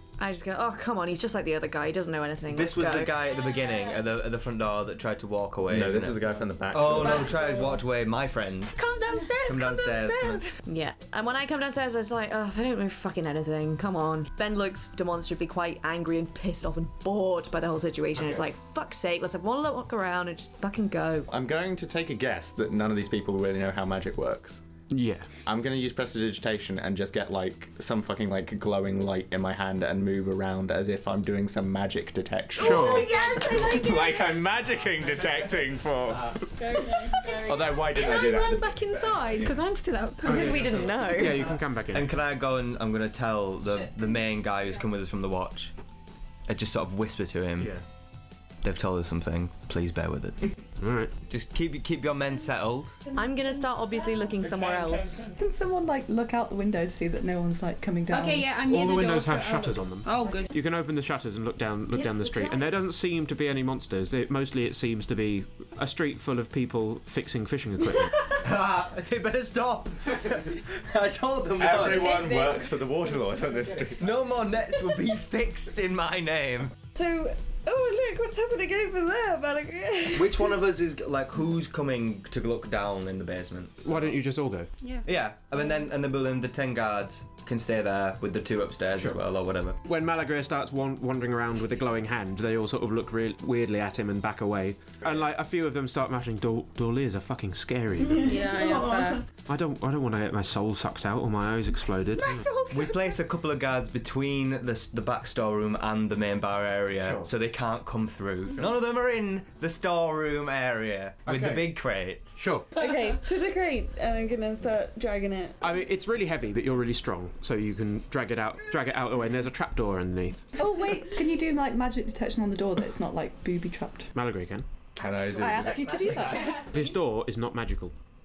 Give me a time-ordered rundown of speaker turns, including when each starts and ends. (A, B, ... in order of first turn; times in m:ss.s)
0:00.2-0:03.2 A
0:02.5-0:08.8 B
0:05.6-0:07.4 C
0:07.1-0:07.8 D
0:08.8-0:10.5 D
0:09.4-0:10.4 B
0:10.6-0:21.3 A
0:18.2-0:18.4 C
0:21.3-0:24.6 C
0:24.9-0:25.3 E
0:25.4-0:36.8 C
0:32.6-0:34.5 D
0:32.6-0:33.1 E
0:36.4-0:37.9 F
0:37.1-0:40.8 D
0:37.3-0:39.6 C
0:40.2-0:41.5 A
0:40.2-0:42.1 E
0:41.9-0:45.7 B
0:46.5-0:47.7 B
0:47.6-0:47.8 E
0:48.6-0:50.5 B
0:50.8-0:51.1 E
0:51.3-0:53.0 B
0:53.1-0:55.3 A
0:54.4-0:55.3 C
0:55.3-0:58.5 G
0:58.1-1:00.5 D
0:58.6-1:08.2 E
1:01.9-1:02.7 D
1:08.2-1:12.5 B
1:11.6-1:14.2 C
1:14.0-1:16.7 B
1:16.9-1:20.6 F
1:20.1-1:23.8 B
1:23.8-1:24.7 E
1:24.8-1:25.1 D
1:25.0-1:29.8 B
1:29.8-1:38.4 E
1:38.0-1:39.2 F
1:38.2-1:39.2 D
1:39.5-1:42.4 E
1:42.2-1:43.2 D
1:42.7-1:52.4 B
1:47.0-1:47.3 E
1:51.3-1:51.8 E
1:52.4-1:52.7 E
1:52.7-1:55.6 F
1:55.6-2:00.5 E
2:00.6-2:04.1 G
2:04.1-2:04.7 E
2:05.0-2:06.5 C
2:05.3-2:06.7 G
2:06.5-2:07.9 E